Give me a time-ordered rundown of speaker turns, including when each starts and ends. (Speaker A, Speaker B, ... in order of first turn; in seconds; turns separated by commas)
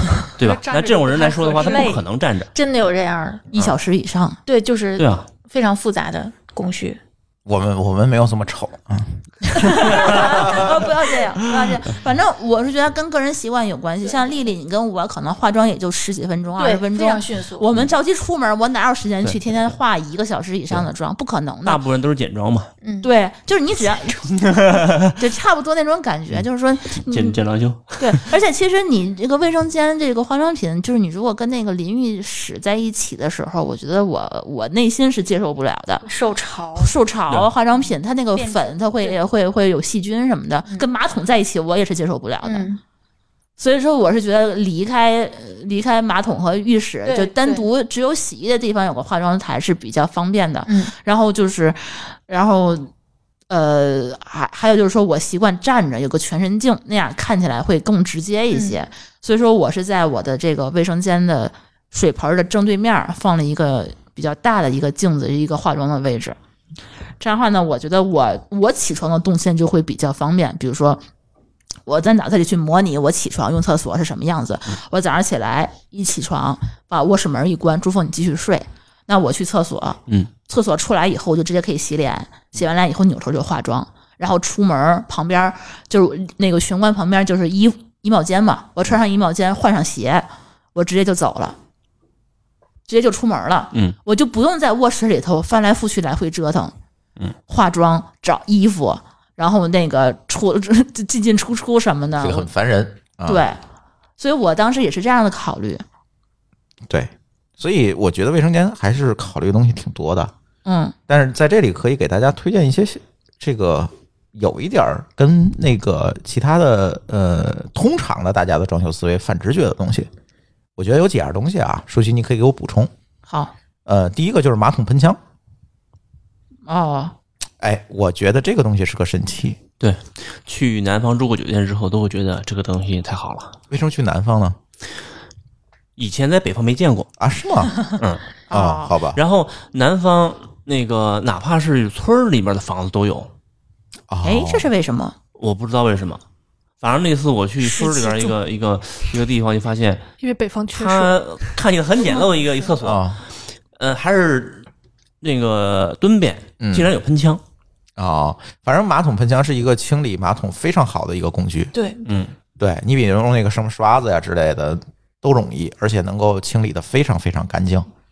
Speaker A: 0.2-2.5, Speaker B: 0.4-1.9, Speaker C: 1.6-2.0, Speaker C: 2.5-3.5, Speaker D: 3.5-4.4, Speaker C: 4.5-7.0, Speaker A: 5.0-5.2, Speaker E: 7.5-10.8, Speaker D: 9.6-21.8, Speaker A: 9.8-10.2, Speaker C: 16.6-17.6, Speaker A: 21.6-22.7, Speaker C: 22.8-23.1, Speaker D: 23.0-24.3, Speaker A: 24.3-25.1, Speaker D: 25.1-27.4, Speaker A: 26.9-28.3, Speaker D: 28.0-36.0, Speaker C: 36.0-36.9, Speaker D: 36.8-42.6, Speaker C: 38.3-39.1, Speaker C: 42.4-42.8, Speaker D: 43.6-52.9, Speaker C: 47.0-47.7, Speaker C: 50.6-50.9, Speaker D: 53.5-66.4, Speaker D: 67.2-71.0, Speaker D: 71.8-91.6, Speaker D: 92.9-96.7, Speaker D: 97.5-102.5, Speaker E: 102.2-103.4, Speaker D: 103.2-103.6, Speaker D: 104.2-105.8, Speaker E: 106.9-110.3, Speaker D: 110.6-110.9, Speaker E: 111.1-120.1, Speaker E: 120.8-122.9, Speaker D: 123.3-123.5, Speaker E: 123.8-125.2, Speaker D: 126.7-127.1, Speaker E: 127.6-129.6, Speaker A: 129.8-133.5, Speaker E: 133.7-134.6, Speaker A: 136.0-137.1, Speaker E: 137.2-137.8, Speaker A: 138.0-138.2, Speaker D: 138.5-138.9, Speaker E: 138.5-139.2, Speaker A: 139.1-143.3, Speaker E: 144.1-144.7, Speaker D: 144.2-145.1, Speaker A: 145.3-146.2, Speaker A: 146.8-150.0, Speaker B: 147.8-148.2, Speaker B: 150.2-151.5, Speaker A: 150.7-153.2, Speaker E: 152.8-153.2, Speaker A: 153.7-154.7, Speaker A: 155.2-157.4, Speaker E: 156.6-156.9, Speaker E: 158.0-161.7, Speaker C: 161.7-162.0, Speaker A: 162.0-162.3, Speaker E: 162.6-167.9